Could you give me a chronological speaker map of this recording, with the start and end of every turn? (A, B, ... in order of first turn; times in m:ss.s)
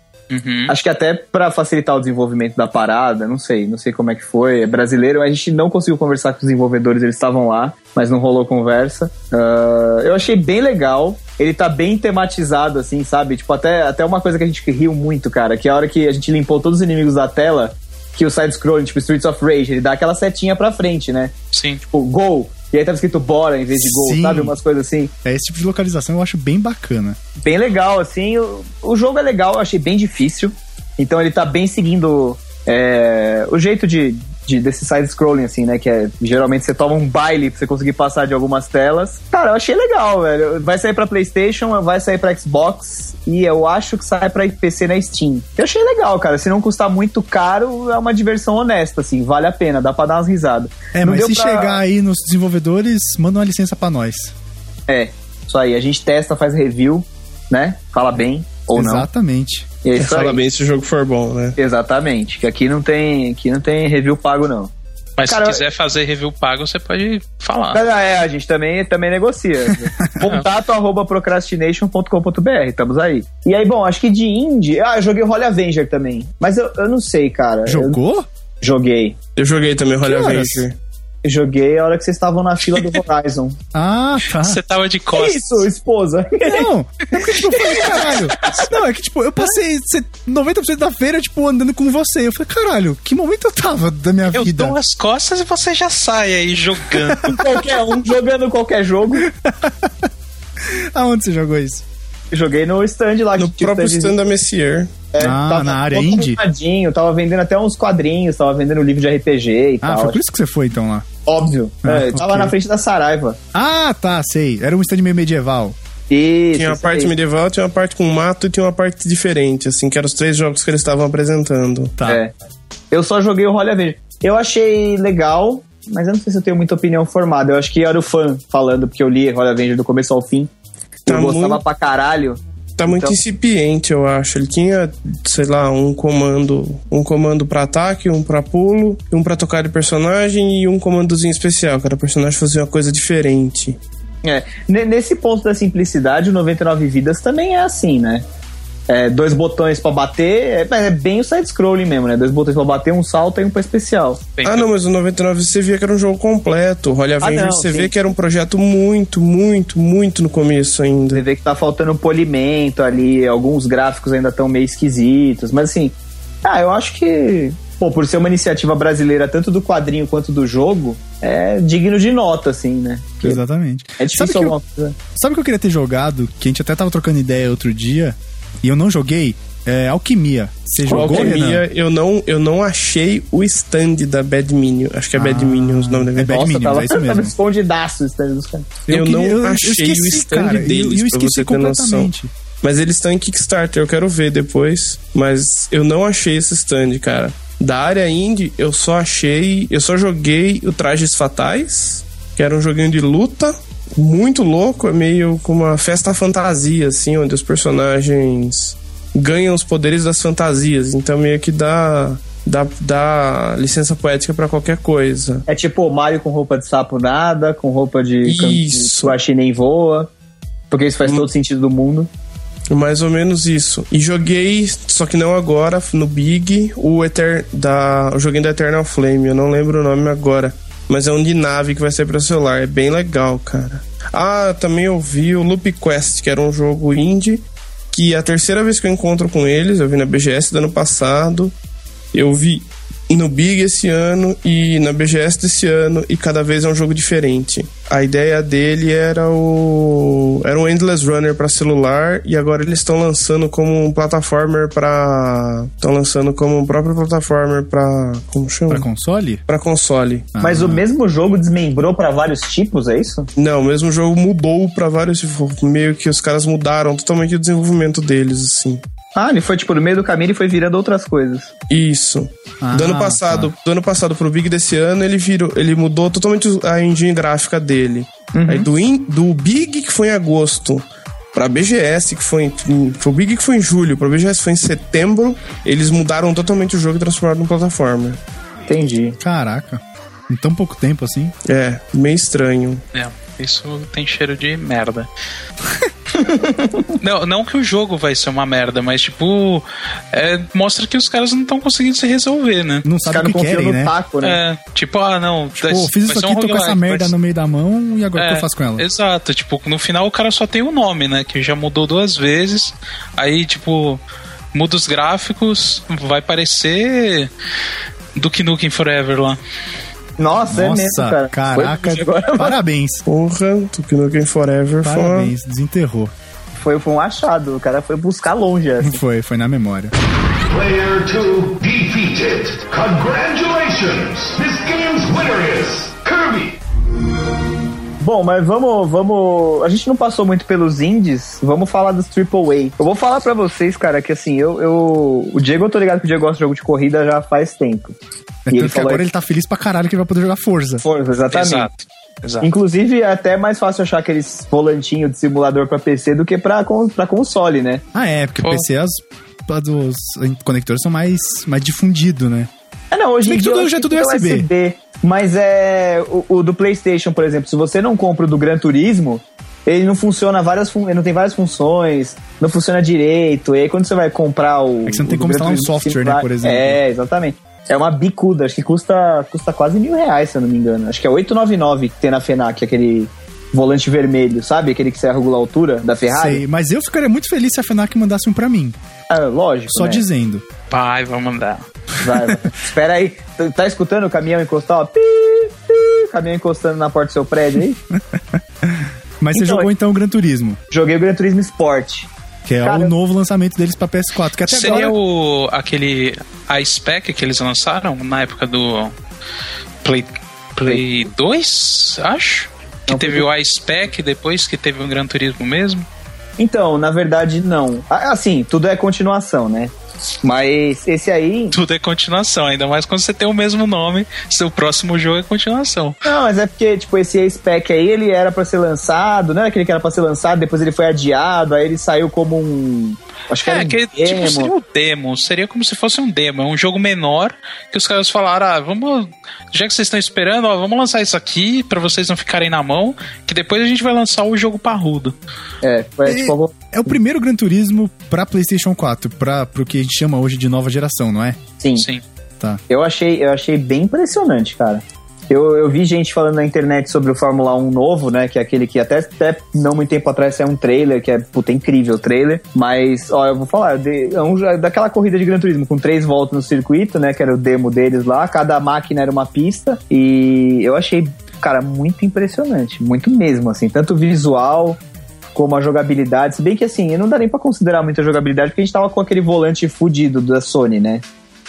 0:00.3-0:00.8 A
0:00.7-0:25.1 B
0:21.5-0:21.8 A
0:23.8-0:24.6 C
0:25.2-0:27.2 C
0:27.4-0:51.8 B
0:50.9-0:54.3 C
0:54.9-0:59.1 B
0:58.7-0:59.7 C
0:59.8-1:00.4 B
1:00.0-1:01.6 D
1:01.6-1:04.7 B
1:05.2-1:07.8 A
1:05.3-1:05.6 B
1:07.7-1:18.0 B
1:10.0-1:10.3 C
1:17.7-1:18.3 C
1:18.6-1:19.2 B
1:19.4-1:20.8 D
1:20.0-1:20.6 C
1:21.2-1:23.6 B
1:23.7-1:24.6 C
1:24.4-1:25.7 A
1:25.1-1:28.6 B
1:26.4-1:34.8 C
1:34.3-1:37.4 A
1:37.0-1:37.4 C
1:37.3-1:39.3 B
1:39.2-1:40.1 C
1:40.6-1:41.8 C
1:42.3-1:44.2 B
1:43.4-1:44.9 D
1:45.1-1:50.2 B
1:45.2-1:46.4 C
1:49.8-1:51.1 C
1:51.3-1:53.4 B
1:51.8-1:52.6 C
1:53.5-1:55.8 C
1:56.1-1:57.1 B
1:56.5-2:02.0 D
2:02.0-2:02.3 B
2:02.9-2:10.5 B
2:11.1-2:11.6 D
2:11.1-2:13.2 B
2:12.8-2:23.8 D
2:24.2-2:28.2 B
2:28.9-2:34.2 B
2:34.4-2:34.7 A
2:34.4-2:41.2 D
2:37.2-2:37.9 B
2:41.1-2:53.4 B
2:53.2-2:54.6 C
2:54.0-2:55.0 B
2:55.2-3:01.6 C
3:00.8-3:06.5 D
3:05.1-3:07.3 C
3:06.2-3:08.8 B
3:08.9-3:12.1 D
3:08.9-3:12.3 C
3:12.6-3:35.4 D
3:35.5-3:40.1 B
3:38.2-3:39.2 D
3:40.7-3:42.1 B
3:41.0-3:41.3 D
3:42.7-4:01.5 D
4:02.1-4:18.9 D
4:18.7-4:19.4 C
4:19.5-4:20.3 D
4:20.3-4:20.8 C
4:20.4-4:23.3 B
4:23.4-4:28.8 D
4:29.2-4:31.5 B
4:31.7-4:48.2 D
4:32.6-4:33.5 C
4:38.4-4:38.7 B
4:48.7-4:49.2 B
4:49.2-4:51.3 C
4:51.4-4:52.8 D
4:52.9-4:55.1 A
4:56.1-4:56.9 B
4:57.0-5:02.9 A
5:02.8-5:03.9 C
5:03.1-5:04.4 B
5:04.2-5:07.1 A
5:05.6-5:08.9 C
5:08.2-5:14.0 A
5:14.5-5:17.3 A
5:18.2-5:19.4 A
5:20.2-5:22.6 B
5:20.5-5:23.0 C
5:23.1-5:25.3 D
5:24.8-5:26.1 C
5:26.6-5:29.0 B
5:28.8-5:29.9 C
5:30.5-5:36.6 E
5:38.0-5:48.0 B
5:48.5-5:50.8 C
5:48.5-5:49.0 B
5:50.8-5:51.7 B
5:51.3-5:52.5 A
5:52.4-5:57.8 B
5:57.9-6:02.5 C
5:58.4-5:58.7 A
6:02.9-6:26.4 B
6:03.2-6:04.5 C
6:14.8-6:16.8 C
6:26.1-6:28.8 C
6:29.1-6:30.0 B
6:29.7-6:30.4 C
6:30.7-6:31.6 A
6:32.0-6:37.8 B
6:37.9-6:40.6 C
6:39.3-6:39.7 B
6:40.7-6:42.1 B
6:42.5-6:45.0 C
6:42.6-6:42.9 B
6:44.5-6:48.9 A
6:44.6-6:44.9 B
6:49.8-6:55.9 A
6:52.9-6:53.2 B
6:56.4-7:01.6 B
7:01.5-7:06.0 A
7:06.0-7:14.5 B
7:13.4-7:25.2 A
7:25.6-7:27.0 B
7:26.1-7:31.4 C
7:31.6-7:31.9 B
7:31.8-7:32.0 A
7:32.7-7:54.8 B
7:55.3-8:01.0 B